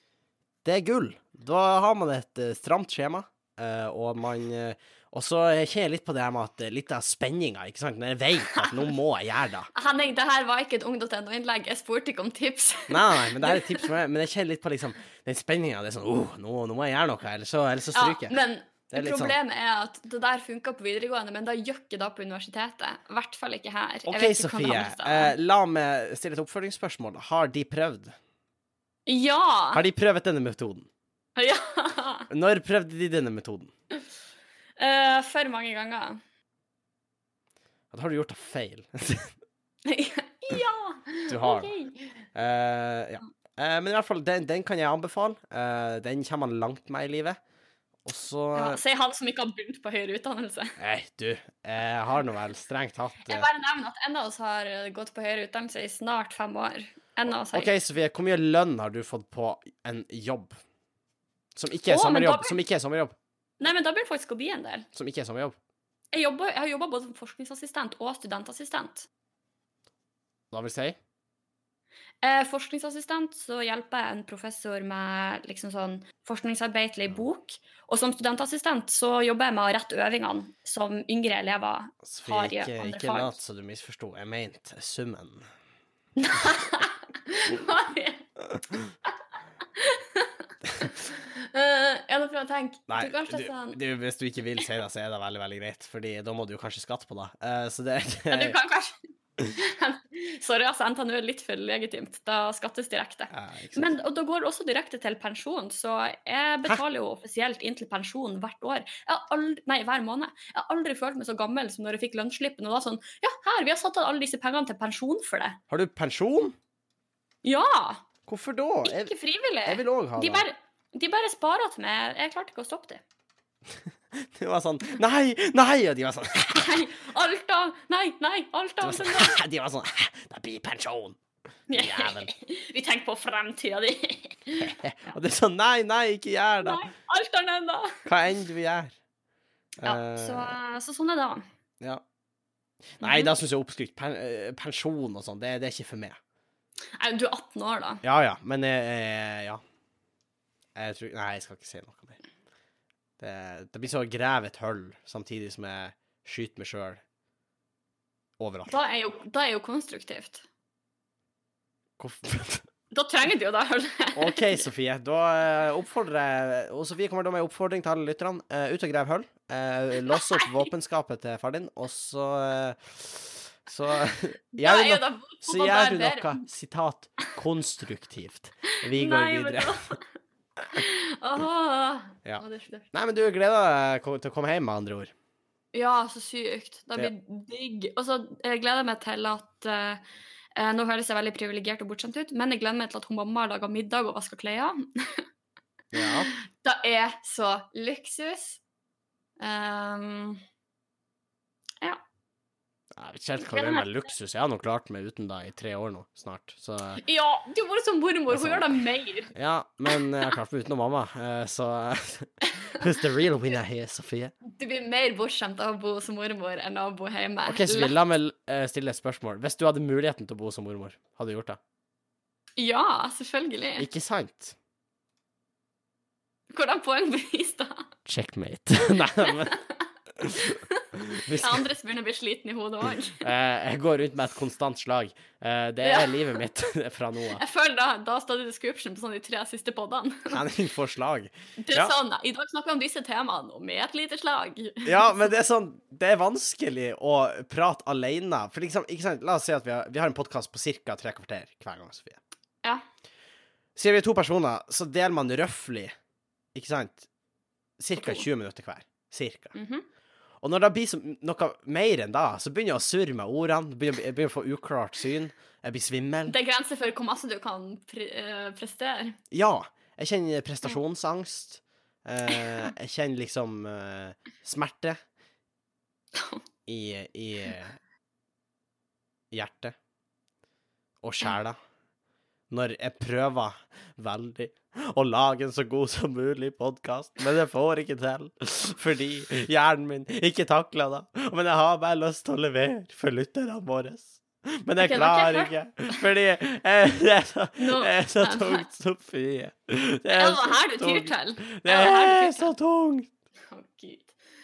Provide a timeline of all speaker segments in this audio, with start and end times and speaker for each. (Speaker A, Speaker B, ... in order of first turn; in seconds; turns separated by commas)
Speaker A: 0.6-9.7, Speaker B: 9.7-13.9, Speaker A: 12.9-18.4, Speaker B: 17.9-25.3, Speaker A: 18.9-19.4, Speaker A: 24.1-28.1, Speaker B: 29.1-29.8, Speaker A: 29.7-30.9, Speaker B: 31.4-32.3, Speaker A: 32.3-33.7, Speaker B: 34.8-36.2, Speaker A: 37.9-39.3, Speaker B: 39.8-42.0, Speaker A: 41.3-41.7, Speaker A: 42.3-47.4, Speaker A: 48.0-48.8, Speaker B: 48.5-50.8, Speaker A: 50.8-53.5, Speaker B: 53.3-57.7, Speaker A: 57.5-60.6, Speaker A: 61.5-63.1, Speaker B: 61.9-62.6, Speaker B: 63.6-64.9, Speaker A: 64.9-65.5, Speaker B: 66.1-69.1, Speaker A: 70.5-71.0, Speaker B: 72.2-83.3, Speaker A: 82.0-85.5, Speaker B: 86.2-88.3, Speaker A: 88.6-88.8, Speaker B: 89.7-93.8, Speaker A: 92.9-98.6, Speaker B: 98.3-115.6, Speaker A: 103.3-103.9, Speaker A: 115.7-116.5, Speaker B: 117.4-118.0, Speaker A: 118.2-119.1, Speaker B: 118.8-123.0, Speaker A: 119.6-120.5, Speaker A: 124.2-126.9, Speaker B: 126.4-129.4, Speaker A: 128.8-131.2, Speaker B: 131.7-135.2, Speaker A: 131.7-132.3, Speaker A: 134.6-136.8, Speaker B: 136.6-138.0, Speaker A: 138.0-138.9, Speaker A: 139.8-140.6, Speaker B: 139.8-141.4, Speaker A: 143.0-146.2, Speaker B: 143.0-143.3, Speaker B: 146.9-148.0, Speaker A: 148.0-149.6, Speaker A: 150.8-152.2, Speaker A: 153.2-157.0, Speaker A: 158.4-158.8, Speaker B: 158.7-160.4, Speaker A: 162.0-162.7, Speaker B: 162.9-164.6, Speaker A: 164.1-179.9, Speaker B: 170.1-170.7, Speaker B: 174.6-176.4, Speaker B: 178.9-180.0, Speaker B: 180.7-182.9, Speaker A: 182.2-185.1, Speaker B: 185.7-190.0, Speaker B: 190.6-195.2, Speaker A: 195.9-196.3, Speaker B: 196.0-198.6, Speaker B: 199.4-200.4, Speaker A: 202.9-207.0, Speaker B: 203.5-203.8, Speaker B: 207.0-209.3, Speaker A: 208.3-208.8, Speaker A: 209.3-214.3, Speaker B: 209.9-210.3, Speaker B: 214.4-217.9, Speaker A: 217.5-221.6, Speaker B: 222.6-223.9, Speaker A: 223.8-224.5, Speaker B: 226.5-227.9, Speaker A: 228.1-229.6, Speaker B: 229.2-229.6, Speaker A: 230.2-231.7, Speaker B: 230.4-233.2, Speaker A: 233.2-237.4, Speaker B: 235.8-236.4, Speaker B: 237.3-240.4, Speaker A: 240.3-241.9, Speaker B: 241.6-245.1, Speaker A: 244.8-252.2, Speaker A: 253.7-255.9, Speaker A: 256.5-257.1, Speaker A: 257.8-259.5, Speaker B: 258.0-258.2, Speaker B: 259.5-259.9, Speaker A: 260.4-266.4, Speaker B: 266.3-269.2, Speaker A: 269.3-275.0, Speaker B: 272.3-272.7, Speaker B: 276.1-276.4, Speaker A: 276.6-277.8, Speaker A: 279.3-279.7, Speaker A: 281.0-281.6, Speaker A: 282.5-303.1, Speaker B: 294.8-295.9, Speaker B: 297.6-298.6, Speaker B: 300.1-302.5, Speaker B: 303.5-304.1